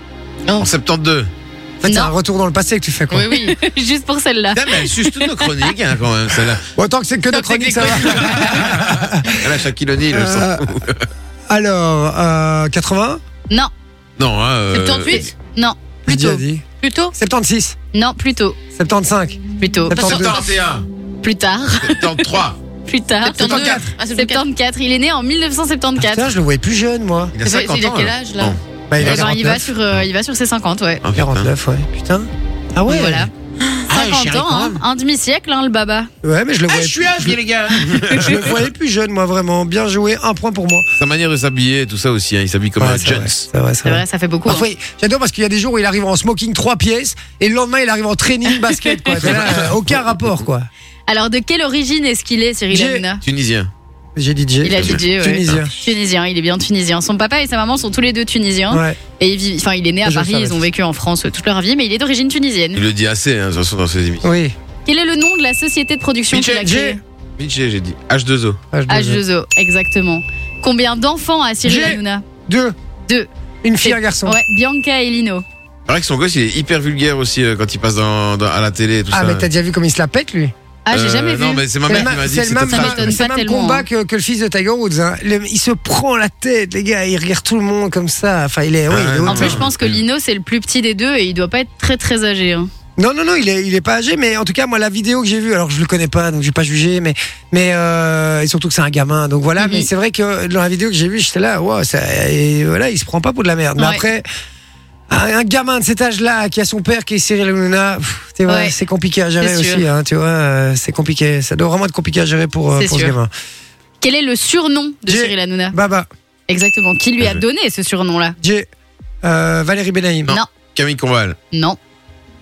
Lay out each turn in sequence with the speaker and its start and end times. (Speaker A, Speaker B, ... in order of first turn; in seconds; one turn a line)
Speaker A: 0.6-1.3
Speaker B: 1.8-3.3
Speaker C: 1.9-2.1
Speaker D: 3.1-3.6
Speaker C: 3.5-5.7
Speaker A: 4.5-6.6
Speaker B: 6.8-9.4
Speaker D: 7.3-8.6
Speaker A: 8.2-11.1
Speaker B: 10.1-10.7
Speaker B: 11.5-13.2
Speaker A: 14.2-15.3
Speaker D: 14.7-15.3
Speaker C: 15.5-16.4
Speaker B: 16.1-16.6
Speaker D: 16.8-17.1
Speaker B: 17.1-17.8
Speaker C: 17.9-18.6
Speaker B: 18.7-20.3
Speaker C: 19.6-20.0
Speaker A: 19.9-20.8
Speaker D: 20.0-20.4
Speaker C: 21.2-22.2
Speaker A: 21.7-22.6
Speaker C: 22.9-26.3
Speaker D: 23.2-24.4
Speaker B: 23.4-23.9
Speaker B: 26.0-27.3
Speaker A: 27.3-30.0
Speaker D: 27.4-28.6
Speaker B: 28.9-29.6
Speaker C: 29.0-31.0
Speaker A: 31.0-31.5
Speaker B: 31.1-33.3
Speaker C: 32.9-33.3
Speaker A: 33.9-34.8
Speaker C: 33.9-36.1
Speaker B: 36.2-37.4
Speaker A: 36.7-38.7
Speaker B: 38.0-40.9
Speaker A: 41.0-43.5
Speaker B: 42.8-50.7
Speaker C: 43.8-44.6
Speaker A: 49.2-49.8
Speaker C: 51.1-53.2
Speaker B: 52.7-53.0
Speaker A: 53.2-53.7
Speaker B: 54.1-55.7
Speaker C: 54.6-62.8
Speaker A: 54.8-55.6
Speaker B: 58.7-59.0
Speaker B: 60.0-60.6
Speaker A: 62.7-64.2
Speaker B: 64.2-64.5
Speaker C: 64.8-67.0
Speaker A: 66.3-66.7
Speaker B: 66.5-67.0
Speaker A: 67.4-68.6
Speaker B: 68.7-69.2
Speaker C: 68.9-72.2
Speaker B: 71.6-72.7
Speaker B: 73.6-74.4
Speaker C: 73.8-75.4
Speaker A: 75.9-79.5
Speaker B: 79.1-80.5
Speaker C: 80.8-83.8
Speaker A: 80.9-83.2
Speaker B: 81.9-89.6
Speaker A: 88.9-90.0
Speaker C: 89.2-92.7
Speaker B: 93.0-104.2
Speaker C: 99.6-99.9
Speaker C: 103.8-104.0
Speaker B: 105.1-113.3
Speaker C: 108.5-108.7
Speaker C: 109.4-109.8
Speaker C: 112.8-113.1
Speaker C: 114.0-115.8
Speaker B: 115.1-116.1
Speaker C: 116.5-118.3
Speaker B: 118.4-118.7
Speaker B: 119.2-120.3
Speaker A: 120.3-121.4
Speaker C: 121.5-121.8